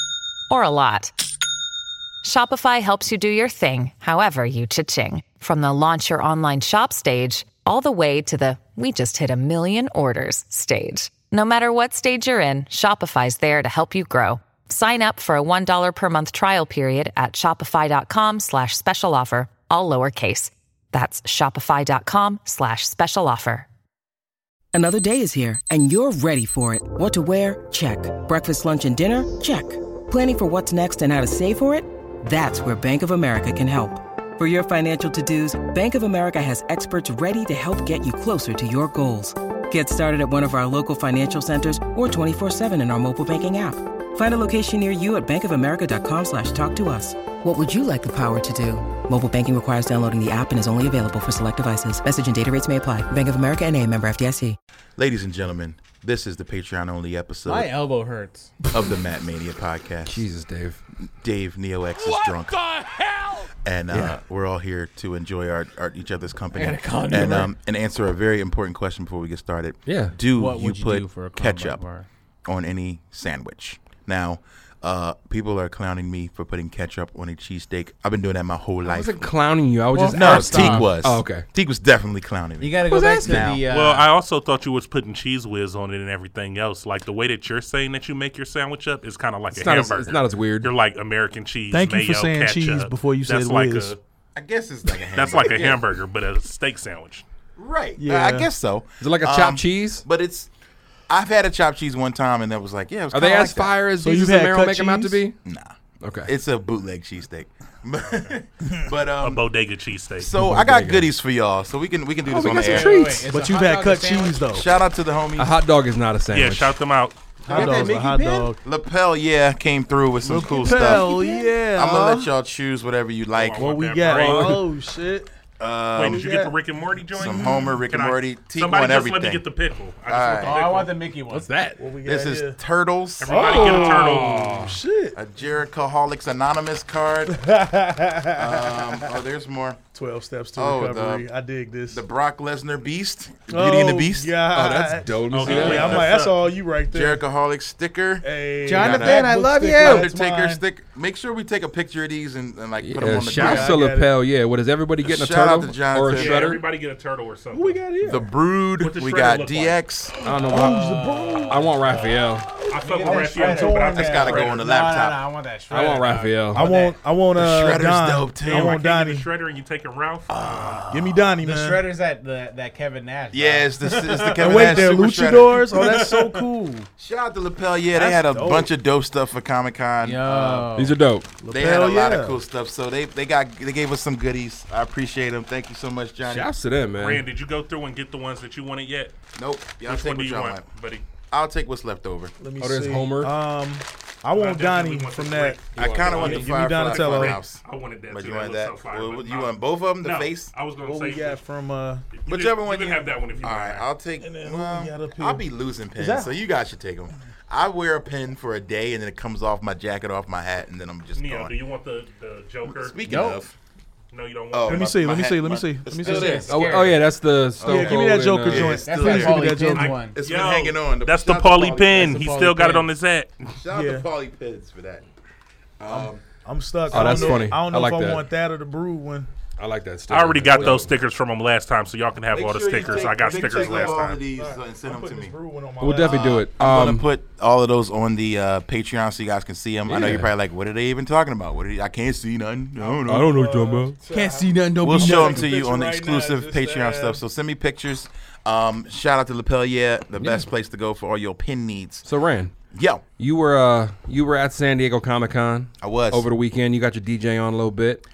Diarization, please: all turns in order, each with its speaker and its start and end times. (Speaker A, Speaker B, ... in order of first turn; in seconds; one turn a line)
Speaker A: 0.5-1.1
Speaker A: 2.2-23.7
Speaker B: 24.7-54.6
Speaker C: 55.0-57.7
Speaker D: 57.4-58.5
Speaker C: 58.7-60.2
Speaker E: 60.0-60.8
Speaker C: 61.2-62.6
Speaker D: 62.0-63.5
Speaker C: 63.6-71.8
Speaker E: 63.9-64.2
Speaker D: 66.5-67.5
Speaker E: 69.8-70.2
Speaker D: 70.3-72.1
Speaker C: 72.4-79.2
Speaker E: 78.8-81.5
Speaker D: 79.9-80.9
Speaker C: 80.2-83.6
Speaker D: 82.6-84.1
Speaker E: 82.9-83.5
Speaker F: 83.7-94.0
Speaker E: 89.5-90.7
Speaker G: 91.7-93.9
Speaker C: 94.3-95.8
Speaker F: 95.1-97.2
Speaker C: 97.6-100.5
Speaker G: 98.0-98.5
Speaker E: 99.0-100.0
Speaker C: 101.1-103.8
Speaker E: 103.1-105.3
Speaker G: 104.0-105.2
Speaker C: 105.4-105.7
Speaker E: 106.0-106.3
Speaker C: 106.2-109.4
Speaker F: 108.0-108.3
Speaker F: 109.2-110.3
Speaker C: 110.2-112.9
Speaker E: 110.3-111.1
Speaker E: 112.2-113.3
Speaker D: 112.6-114.5
Speaker G: 113.3-114.6
Speaker C: 114.5-115.5
Speaker E: 115.4-116.8
Speaker F: 116.3-117.7
Speaker D: 117.5-118.0
Speaker G: 117.5-118.6
Speaker C: 117.5-123.7
Speaker G: 120.2-122.3
Speaker F: 123.3-124.6
Speaker G: 123.6-125.3
Speaker E: 124.1-124.6
Speaker C: 125.6-126.3
Speaker F: 125.9-130.9
Speaker G: 126.0-126.5
Speaker C: 127.1-129.4
Speaker G: 127.3-127.5
Speaker C: 130.1-130.6
Speaker D: 130.4-131.5
Speaker E: 131.3-131.8
Speaker G: 131.8-132.6
Speaker C: 132.0-133.4
Speaker F: 133.2-134.6
Speaker G: 133.3-135.1
Speaker E: 133.4-134.8
Speaker C: 135.1-137.3
Speaker G: 137.3-138.3
Speaker C: 138.3-139.8
Speaker G: 139.9-142.0
Speaker C: 140.6-141.3
Speaker C: 141.9-144.3
Speaker G: 143.5-147.2
Speaker E: 144.5-146.0
Speaker F: 145.3-146.4
Speaker C: 145.5-145.8
Speaker C: 146.9-148.2
Speaker G: 148.2-150.6
Speaker D: 148.6-150.1
Speaker C: 148.8-153.8
Speaker E: 152.8-156.6
Speaker G: 153.3-154.1
Speaker C: 155.0-156.5
Speaker F: 156.1-157.8
Speaker G: 157.5-158.1
Speaker C: 158.1-160.2
Speaker F: 158.8-159.8
Speaker E: 160.2-162.5
Speaker D: 160.2-167.0
Speaker G: 160.5-161.0
Speaker F: 162.7-164.6
Speaker G: 163.1-164.3
Speaker C: 163.9-165.2
Speaker E: 165.7-166.7
Speaker G: 166.5-169.3
Speaker C: 167.3-168.8
Speaker F: 168.4-170.9
Speaker C: 170.3-171.3
Speaker G: 170.9-171.8
Speaker D: 171.4-174.7
Speaker C: 173.3-175.9
Speaker G: 174.4-176.9
Speaker D: 175.8-176.2
Speaker C: 177.0-180.7
Speaker G: 177.9-178.6
Speaker D: 180.0-180.9
Speaker E: 180.7-181.3
Speaker G: 181.4-182.4
Speaker C: 181.5-186.5
Speaker E: 186.2-187.2
Speaker F: 187.0-189.1
Speaker C: 189.3-190.7
Speaker F: 189.8-191.1
Speaker C: 191.3-192.3
Speaker G: 192.4-197.3
Speaker E: 192.6-193.3
Speaker F: 194.3-201.4
Speaker E: 195.7-196.4
Speaker C: 195.7-200.7
Speaker G: 200.8-202.1
Speaker F: 202.1-203.9
Speaker C: 202.2-211.5
Speaker G: 204.2-205.4
Speaker G: 206.0-206.3
Speaker F: 211.1-213.0
Speaker C: 212.6-213.5
Speaker D: 213.0-213.5
Speaker F: 214.1-214.9
Speaker C: 214.5-216.9
Speaker G: 214.7-216.4
Speaker D: 216.0-217.1
Speaker E: 216.5-218.8
Speaker C: 217.6-222.2
Speaker G: 217.7-219.9
Speaker D: 218.7-220.1
Speaker F: 219.7-223.5
Speaker D: 221.9-222.9
Speaker C: 223.6-225.0
Speaker G: 223.7-224.0
Speaker C: 225.8-226.2
Speaker G: 225.9-229.3
Speaker E: 226.9-228.2
Speaker C: 226.9-227.4
Speaker E: 229.6-230.9
Speaker F: 230.1-234.2
Speaker C: 232.3-235.3
Speaker G: 233.3-236.2
Speaker E: 235.8-237.1
Speaker C: 236.0-243.3
Speaker E: 239.9-240.3
Speaker E: 243.0-243.9
Speaker G: 243.3-247.2
Speaker D: 244.1-245.5
Speaker C: 244.8-252.1
Speaker E: 250.2-250.5
Speaker E: 252.0-252.5
Speaker C: 252.7-253.0
Speaker E: 253.2-258.0
Speaker C: 255.8-256.2